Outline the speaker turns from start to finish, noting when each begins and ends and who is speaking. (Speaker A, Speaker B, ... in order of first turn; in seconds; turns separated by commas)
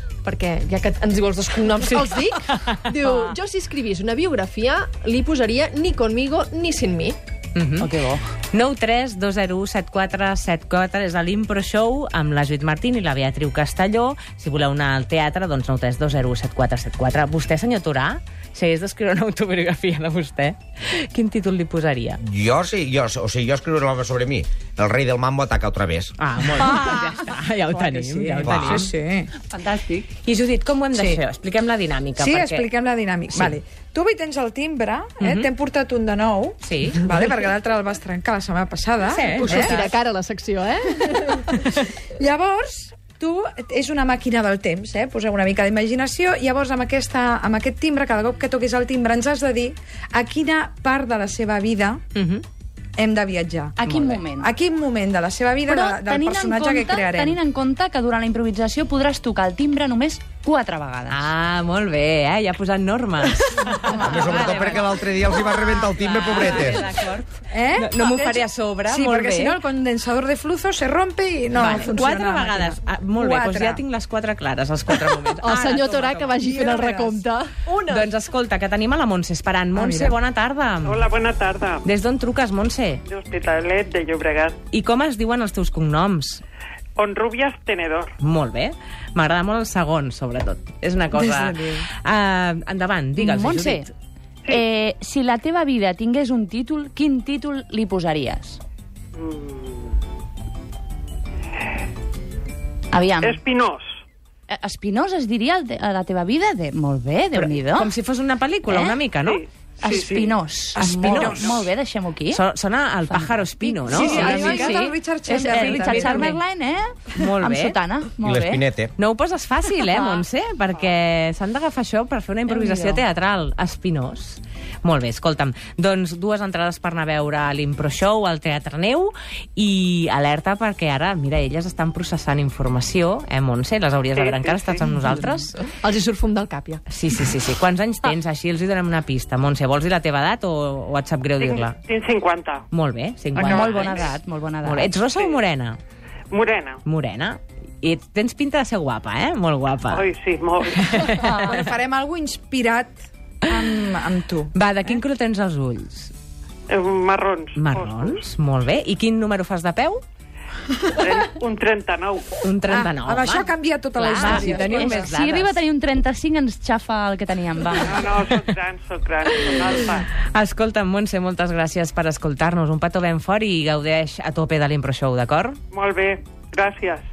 Speaker A: 0.2-7.2, Speaker B: 3.0-3.4, Speaker C: 7.5-7.9, Speaker B: 7.8-8.2, Speaker C: 8.5-22.2, Speaker D: 22.2-26.1, Speaker C: 26.2-28.9, Speaker E: 26.6-27.0, Speaker E: 27.7-29.3, Speaker D: 28.4-28.8, Speaker B: 29.5-30.1, Speaker C: 30.1-32.7, Speaker E: 30.9-31.2, Speaker E: 32.2-39.8, Speaker C: 35.2-35.5, Speaker C: 36.6-37.0, Speaker C: 39.0-39.9, Speaker A: 39.4-41.5, Speaker E: 42.2-52.0, Speaker C: 52.1-52.4, Speaker E: 53.0-53.8, Speaker B: 53.8-54.5, Speaker C: 53.9-54.2, Speaker E: 54.4-57.4, Speaker B: 55.7-61.3, Speaker C: 61.1-69.6, Speaker B: 63.7-64.8, Speaker D: 64.0-66.8, Speaker E: 67.5-73.8, Speaker C: 71.5-76.9, Speaker A: 75.4-77.6, Speaker E: 76.4-77.1, Speaker E: 77.7-78.1, Speaker C: 77.9-81.0, Speaker E: 79.7-80.2, Speaker F: 80.8-81.8, Speaker C: 81.8-83.0, Speaker F: 83.1-84.5, Speaker C: 84.7-86.4, Speaker F: 87.0-88.1, Speaker C: 88.2-93.9, Speaker E: 91.1-91.9, Speaker B: 93.2-93.9, Speaker B: 94.5-98.6, Speaker F: 99.2-99.9, Speaker B: 102.9-103.4, Speaker F: 103.2-103.9, Speaker B: 104.5-107.9, Speaker C: 107.3-109.4, Speaker B: 108.7-109.0, Speaker F: 109.2-110.0, Speaker B: 109.8-112.4, Speaker E: 109.9-111.6, Speaker C: 111.0-111.5, Speaker C: 112.3-114.9, Speaker B: 113.1-118.6, Speaker E: 113.9-116.4, Speaker C: 115.4-116.4, Speaker C: 117.2-117.8, Speaker D: 118.2-118.9, Speaker C: 119.0-135.6, Speaker B: 119.9-120.2, Speaker B: 122.5-123.0, Speaker F: 134.2-134.9, Speaker A: 135.7-136.8, Speaker C: 136.9-141.8, Speaker F: 141.4-142.7, Speaker C: 142.7-144.1, Speaker F: 143.3-144.1, Speaker B: 143.4-144.9, Speaker C: 144.6-145.8, Speaker F: 146.3-146.8, Speaker C: 146.8-150.1, Speaker F: 149.9-151.4, Speaker C: 150.8-151.5, Speaker E: 151.2-154.5, Speaker C: 154.5-156.1, Speaker F: 156.7-158.2, Speaker C: 157.6-160.0, Speaker F: 160.9-162.4, Speaker C: 162.4-165.6, Speaker E: 162.7-165.1, Speaker B: 164.1-168.2, Speaker F: 167.8-170.1, Speaker C: 170.3-175.6, Speaker F: 175.7-177.0